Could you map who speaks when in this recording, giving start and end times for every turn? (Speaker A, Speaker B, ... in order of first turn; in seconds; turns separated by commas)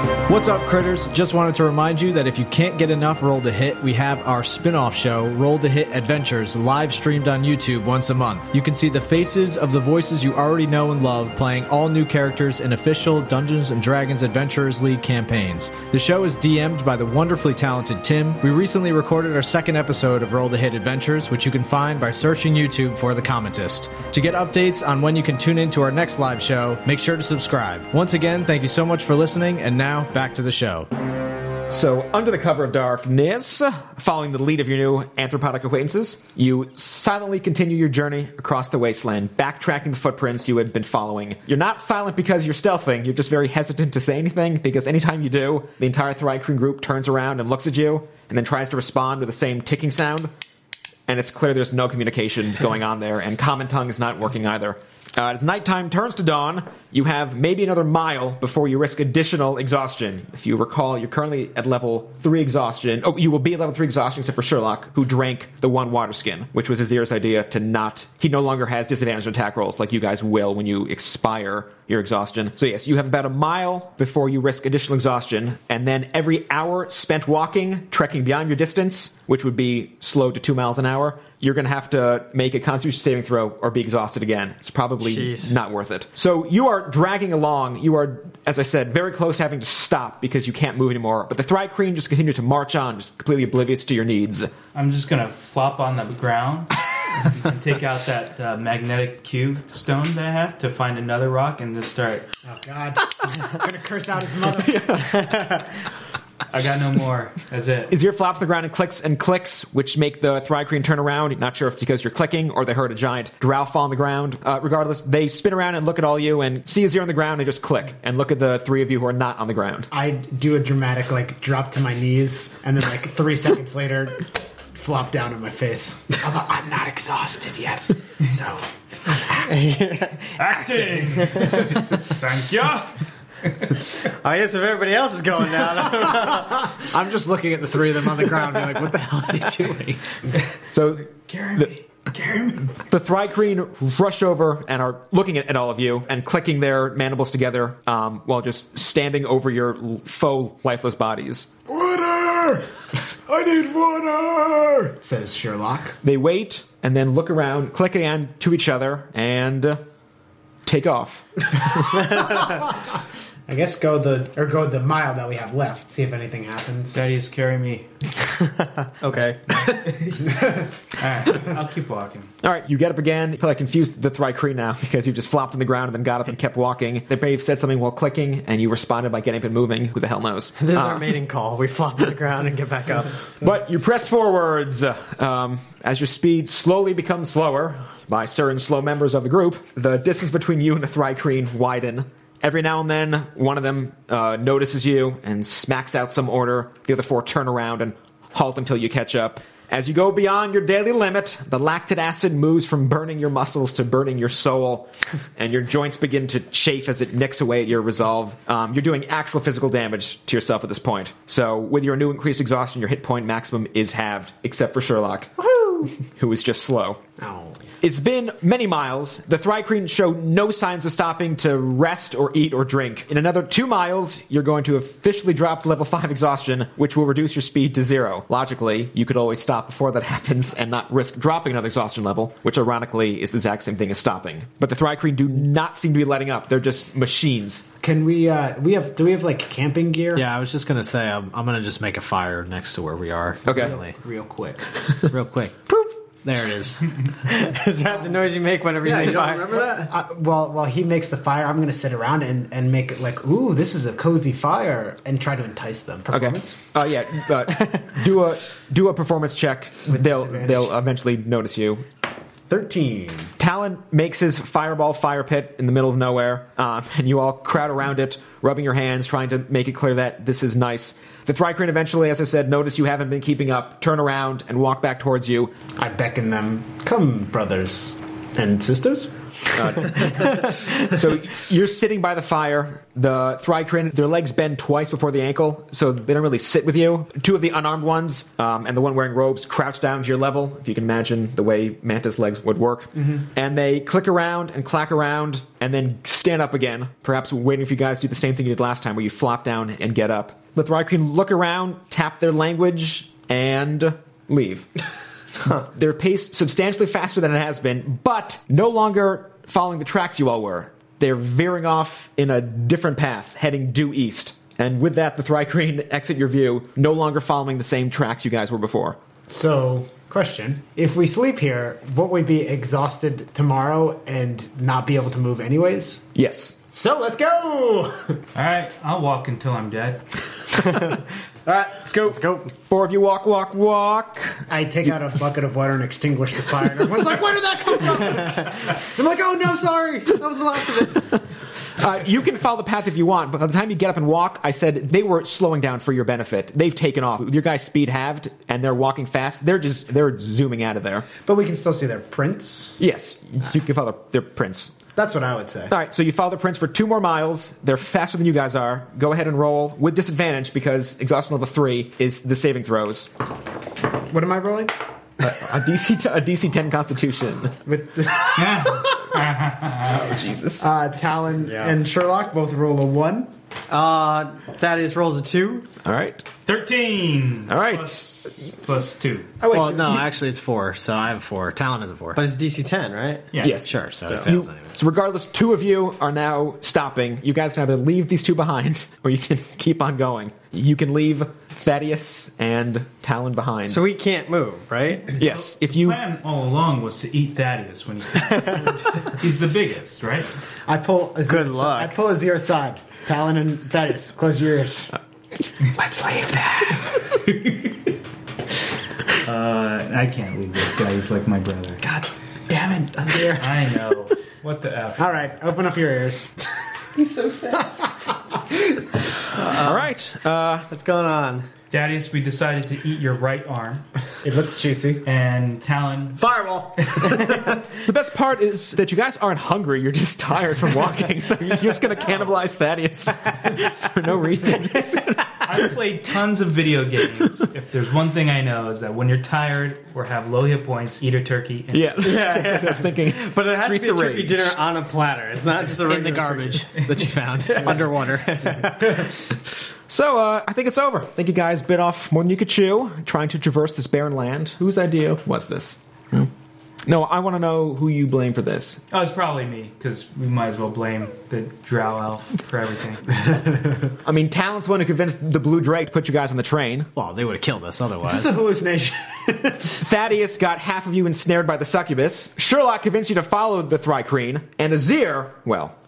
Speaker A: 0.2-30.9, Speaker B: 31.7-50.3, Speaker B: 51.1-94.5, Speaker C: 85.0-85.5, Speaker D: 94.7-102.3, Speaker E: 102.4-105.6, Speaker B: 104.6-105.5, Speaker D: 106.5-107.9, Speaker B: 107.9-119.9, Speaker E: 119.9-129.4, Speaker C: 129.3-130.3, Speaker D: 130.3-133.7, Speaker C: 131.2-131.8, Speaker C: 134.1-136.7, Speaker E: 136.2-137.0, Speaker A: 136.8-140.0, Speaker E: 138.1-138.8, Speaker B: 140.7-141.7, Speaker D: 141.3-142.8, Speaker B: 142.8-151.5, Speaker E: 151.7-152.7, Speaker E: 153.3-156.0, Speaker B: 156.0-159.8, Speaker B: 160.7-162.0, Speaker E: 162.2-162.7, Speaker E: 163.5-167.0, Speaker D: 166.9-167.9, Speaker C: 169.0-169.7, Speaker D: 169.9-172.3, Speaker E: 170.2-170.7, Speaker B: 172.4-181.1, Speaker C: 180.6-183.2, Speaker B: 183.4-215.4, Speaker B: 215.9-217.0, Speaker E: 217.2-217.6, Speaker B: 217.8-237.6, Speaker E: 237.8-240.3, Speaker A: 240.1-243.9, Speaker E: 243.4-244.7, Speaker B: 243.4-243.8, Speaker A: 245.1-247.0, Speaker C: 247.2-249.6, Speaker A: 248.8-249.9, Speaker E: 249.6-256.6, Speaker B: 256.1-261.9, Speaker E: 259.9-260.7, Speaker E: 262.5-263.3, Speaker B: 263.4-275.5, Speaker E: 275.8-279.1, Speaker B: 279.5-304.7, Speaker B: 305.4-319.0, Speaker E: 319.3-326.0, Speaker B: 326.1-326.6, Speaker E: 326.7-328.2, Speaker D: 328.3-330.1, Speaker C: 330.6-331.0, Speaker E: 331.4-332.2, Speaker C: 332.0-332.5, Speaker B: 332.6-334.4, Speaker E: 334.5-341.0, Speaker B: 341.7-351.1, Speaker E: 351.2-352.8, Speaker B: 352.8-354.7, Speaker E: 354.9-355.7, Speaker B: 355.7-363.1, Speaker E: 364.1-364.7, Speaker B: 365.2-367.6, Speaker E: 367.6-368.9, Speaker D: 368.3-370.1, Speaker B: 369.8-370.7, Speaker E: 370.6-373.3, Speaker C: 371.4-371.7, Speaker C: 373.7-375.7, Speaker B: 375.8-376.2, Speaker D: 376.4-379.3, Speaker B: 377.5-378.4, Speaker E: 379.4-380.1, Speaker A: 379.5-382.2, Speaker C: 382.1-383.5, Speaker B: 383.4-393.8, Speaker A: 383.6-384.7, Speaker C: 384.1-384.3, Speaker C: 393.7-395.1, Speaker B: 395.2-396.0, Speaker D: 395.2-400.3, Speaker C: 398.2-398.6, Speaker E: 400.7-404.9, Speaker C: 401.3-401.9, Speaker B: 405.7-406.8, Speaker D: 409.2-411.8, Speaker E: 411.8-413.6, Speaker D: 413.3-415.3, Speaker E: 415.0-416.6, Speaker B: 416.9-417.7, Speaker C: 419.3-419.9, Speaker B: 419.5-420.7, Speaker C: 420.7-421.5, Speaker D: 421.7-423.8, Speaker E: 424.2-425.1, Speaker D: 425.0-426.2, Speaker E: 426.2-427.4, Speaker C: 427.1-427.5, Speaker B: 427.7-435.7, Speaker D: 435.4-442.1, Speaker B: 441.7-444.6, Speaker C: 442.0-446.7, Speaker A: 445.8-448.7, Speaker C: 447.5-448.9, Speaker B: 449.9-456.3, Speaker B: 456.9-458.8, Speaker D: 458.9-463.1, Speaker E: 463.1-463.9, Speaker B: 464.1-466.9, Speaker A: 466.9-468.4, Speaker E: 468.0-469.8, Speaker B: 469.8-475.7